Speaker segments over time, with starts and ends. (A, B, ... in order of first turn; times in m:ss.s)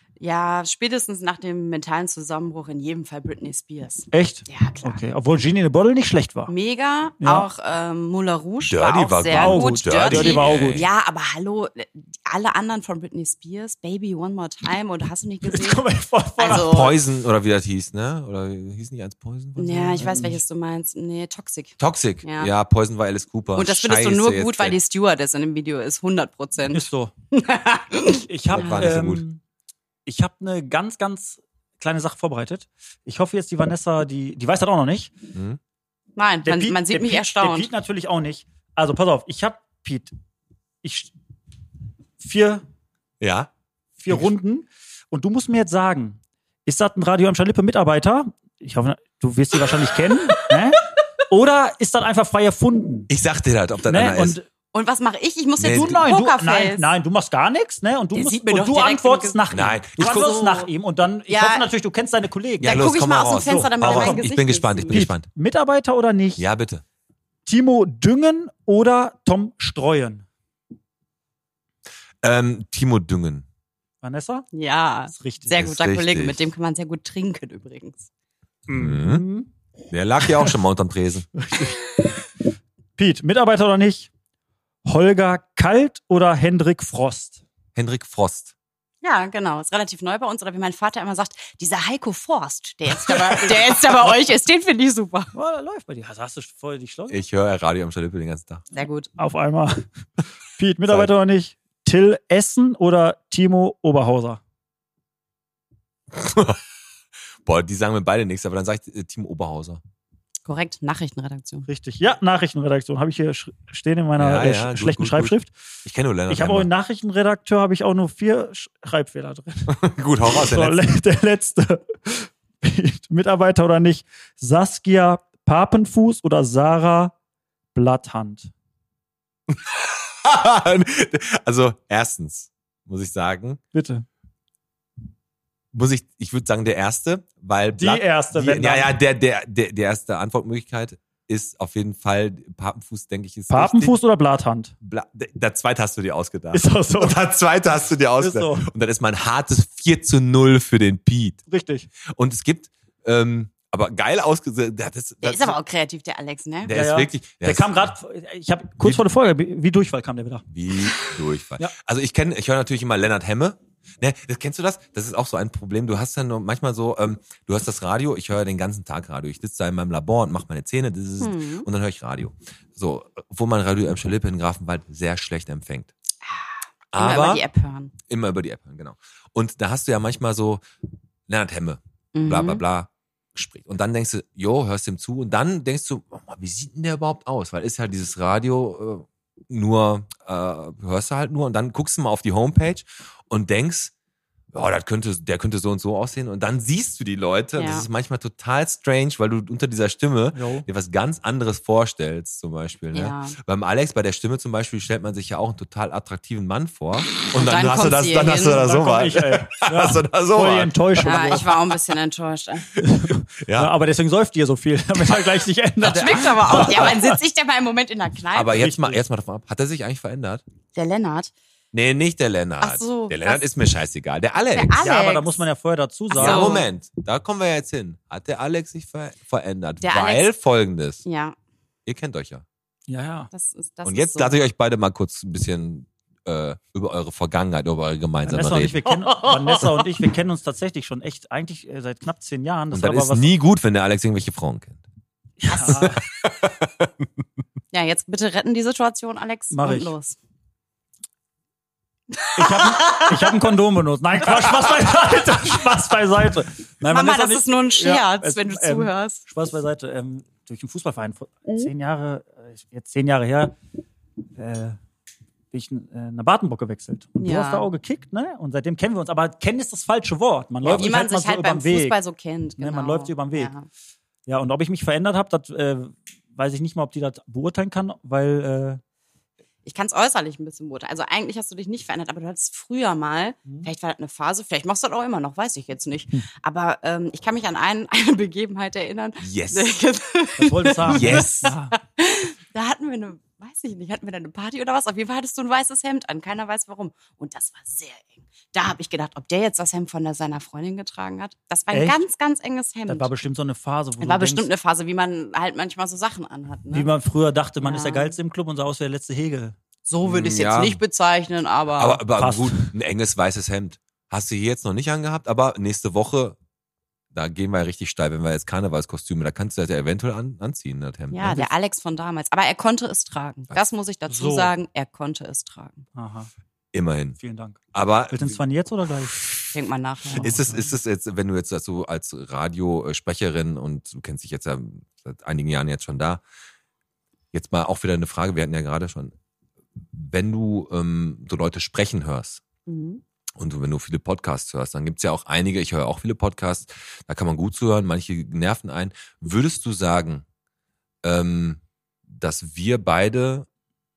0:00.2-0:05.0 A
0:04.1-0:06.5 B
0:06.5-0:15.8 A
0:07.2-0:07.5 B
0:08.6-0:10.9 C
0:09.3-0:10.9 B
0:15.4-0:16.9 B
0:16.4-0:17.0 A
0:16.4-0:20.4 C
0:19.6-0:22.5 A
0:20.0-0:20.4 B
0:21.8-0:24.8 C
0:23.6-0:28.9 A
0:26.7-0:27.1 B
0:28.3-0:29.4 B
0:28.5-0:29.2 C
0:30.1-0:35.2 B
0:35.3-0:35.6 C
0:36.2-0:37.7 A
0:36.4-0:40.2 B
0:40.8-0:41.1 B
0:42.2-0:42.6 B
0:43.2-0:43.5 C
0:44.0-0:53.1 B
0:53.1-0:54.4 C
0:53.9-0:54.5 B
0:54.7-0:56.9 A
0:55.6-0:56.0 C
0:55.6-1:04.3 B
0:58.1-0:59.4 A
0:59.5-1:00.5 C
1:00.0-1:00.7 A
1:01.3-1:01.7 A
1:02.6-1:05.1 A
1:02.6-1:05.3 C
1:04.9-1:06.4 B
1:06.4-1:06.8 C
1:07.5-1:10.2 B
1:12.2-1:13.4 C
1:14.0-1:14.5 B
1:14.5-1:18.1 A
1:15.1-1:15.6 B
1:15.5-1:16.5 C
1:18.7-1:19.5 B
1:18.7-1:19.3 C
1:19.9-1:21.3 C
1:21.4-1:21.8 B
1:23.0-1:24.1 B
1:24.9-1:27.4 B
1:27.8-1:28.5 C
1:29.0-1:35.3 A
1:33.1-1:34.2 B
1:35.3-1:37.2 B
1:37.1-1:38.6 C
1:38.7-1:39.1 A
1:39.2-1:39.8 B
1:40.6-1:44.4 B
1:46.1-1:46.6 C
1:47.4-1:49.8 C
1:50.4-1:51.7 A
1:51.7-1:55.5 B
1:54.2-1:56.7 C
1:56.3-2:07.1 B
1:59.7-2:00.8 C
2:07.8-2:08.5 B
2:09.5-2:13.6 C
2:13.7-2:14.0 B
2:15.7-2:24.0 C
2:17.8-2:19.0 B
2:23.5-2:24.7 B
2:24.8-2:31.4 C
2:26.5-2:27.2 B
2:28.2-2:28.7 B
2:31.5-2:31.9 B
2:32.1-2:35.6 C
2:35.2-2:36.7 A
2:36.6-2:37.9 C
2:36.7-2:40.5 B
2:40.5-2:55.9 C
2:51.2-2:51.7 A
2:56.3-2:57.9 A
2:56.9-2:57.4 C
2:58.1-3:00.6 C
3:01.3-3:13.9 C
3:02.1-3:02.6 A
3:14.5-3:31.8 C
3:17.6-3:17.9 A
3:20.3-3:20.7 B
3:22.9-3:23.4 A
3:27.3-3:28.7 A
3:28.4-3:31.5 B
3:31.0-3:32.8 A
3:32.8-3:37.2 B
3:33.4-3:33.7 C
3:35.8-3:38.6 A
3:36.4-3:37.0 C
3:38.3-3:40.4 C
3:38.6-3:39.0 B
3:40.7-3:41.3 A
3:41.7-3:44.8 C
3:42.6-3:43.4 A
3:44.5-3:45.4 A
3:44.8-3:46.6 B
3:46.1-3:46.7 A
3:46.1-3:51.0 C
3:49.8-3:50.3 A
3:51.0-3:51.4 A
3:51.9-3:52.4 C
3:52.9-3:53.3 B
3:53.3-3:54.4 A
3:53.8-3:58.8 C
3:58.2-4:03.3 B
4:02.7-4:04.8 C
4:05.4-4:06.0 B
4:05.5-4:07.0 C
4:07.7-4:10.2 A
4:09.5-4:09.9 B
4:12.1-4:13.3 A
4:12.4-4:23.6 B
4:16.8-4:19.2 A
4:24.4-4:24.8 B
4:25.5-4:32.0 B
4:27.2-4:27.7 A
4:30.6-4:30.9 C
4:30.6-4:33.7 A
4:32.6-4:33.5 B
4:34.3-4:38.8 B
4:39.6-5:03.1 A
4:49.2-4:49.8 C
4:50.4-4:51.8 B
4:50.9-4:51.5 C
5:01.7-5:02.0 B
5:02.9-5:04.5 B
5:04.0-5:06.9 A
5:06.7-5:09.6 B
5:07.6-5:08.2 A
5:09.9-5:12.0 A
5:10.0-5:10.8 C
5:11.8-5:16.4 C
5:12.2-5:12.7 B
5:17.1-5:21.5 C
5:21.1-5:25.8 A
5:24.1-5:24.5 B
5:26.0-5:26.3 B
5:26.7-5:27.2 C
5:27.2-5:29.2 B
5:27.7-5:28.4 C
5:29.5-5:30.4 A
5:30.1-5:30.7 B
5:30.2-5:36.2 C
5:37.3-5:39.1 C
5:39.9-5:42.4 C
5:42.7-5:43.0 A
5:43.4-5:50.2 C
5:51.0-5:53.5 C